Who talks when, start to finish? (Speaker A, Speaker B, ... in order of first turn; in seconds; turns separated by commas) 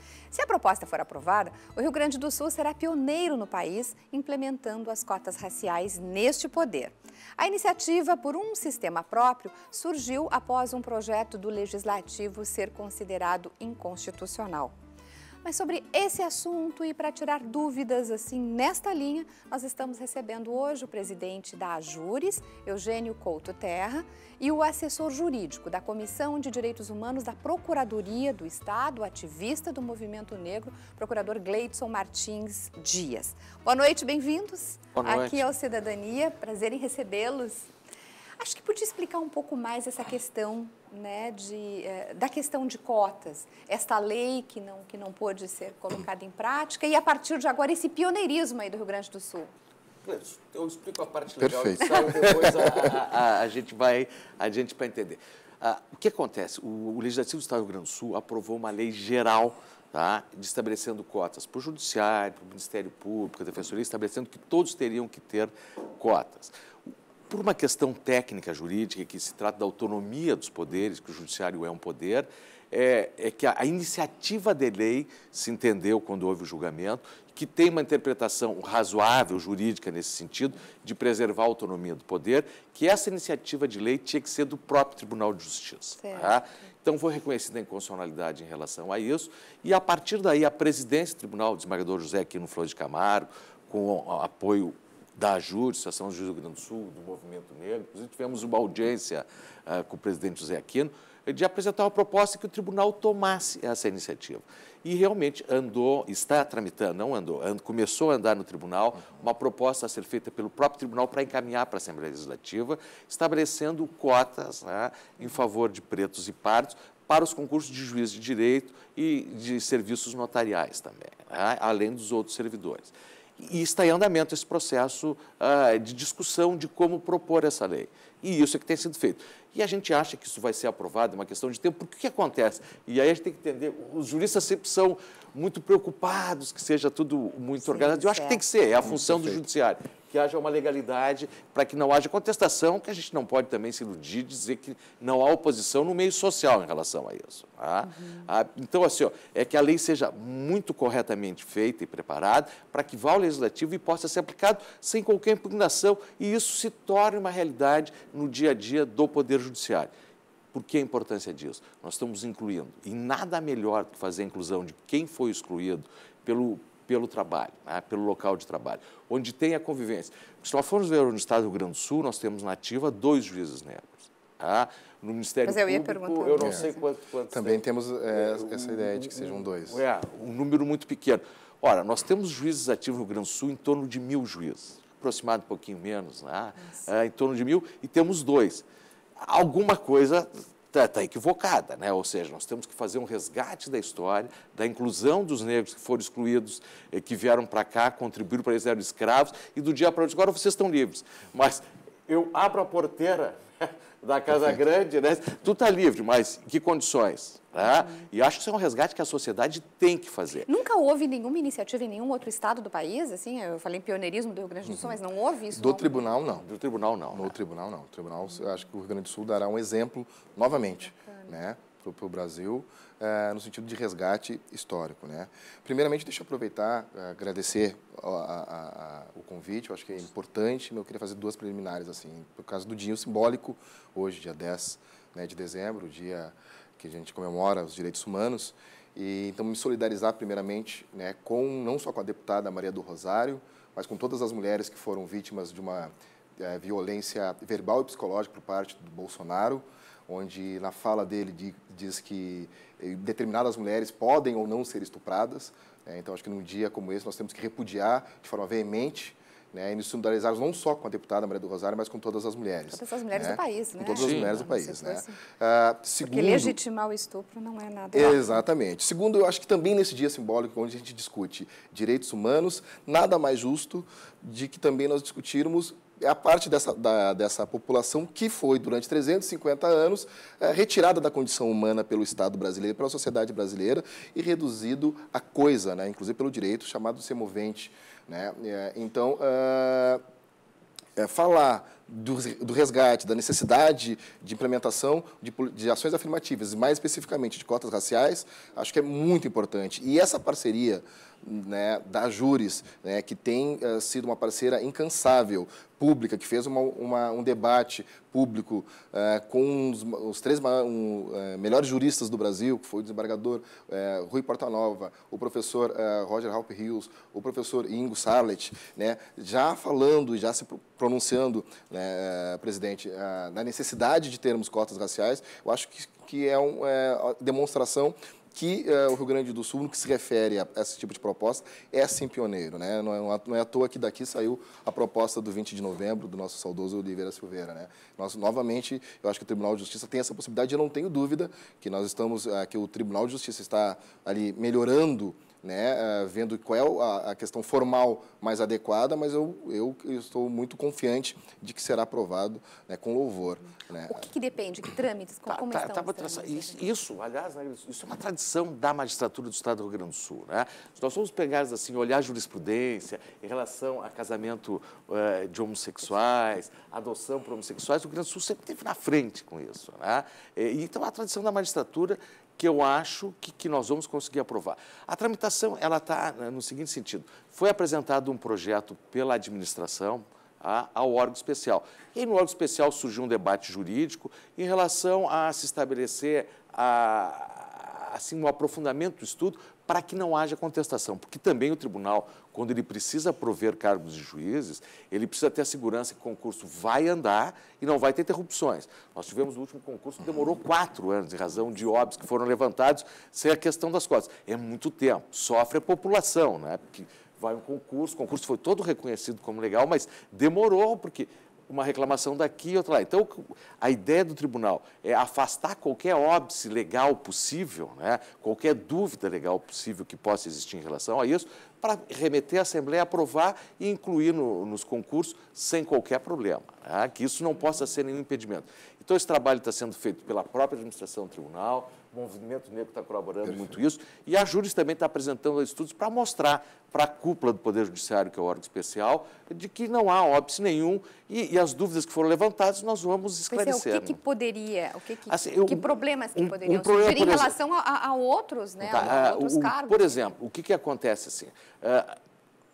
Speaker A: 0.3-14.8, Speaker A: 15.4-37.7, Speaker B: 35.0-35.5, Speaker A: 38.4-49.5, Speaker B: 50.0-66.5, Speaker C: 51.4-53.0, Speaker B: 67.3-159.9, Speaker A: 86.0-86.4, Speaker A: 137.6-138.4, Speaker C: 138.8-139.4, Speaker A: 147.8-148.3, Speaker B: 160.5-188.7, Speaker A: 175.5-176.8, Speaker C: 176.4-176.7, Speaker C: 177.3-179.8, Speaker B: 189.2-210.5, Speaker A: 210.5-216.1, Speaker C: 214.7-215.0, Speaker C: 215.5-216.4, Speaker B: 216.3-217.4, Speaker C: 217.1-266.6, Speaker A: 221.0-221.3, Speaker A: 262.7-265.2, Speaker B: 264.0-264.4, Speaker A: 266.0-268.2, Speaker C: 267.9-290.0, Speaker C: 291.0-354.1, Speaker A: 353.9-356.6, Speaker B: 355.3-444.0, Speaker C: 433.3-433.6, Speaker A: 443.3-450.0, Speaker B: 445.1-447.4, Speaker B: 448.6-452.0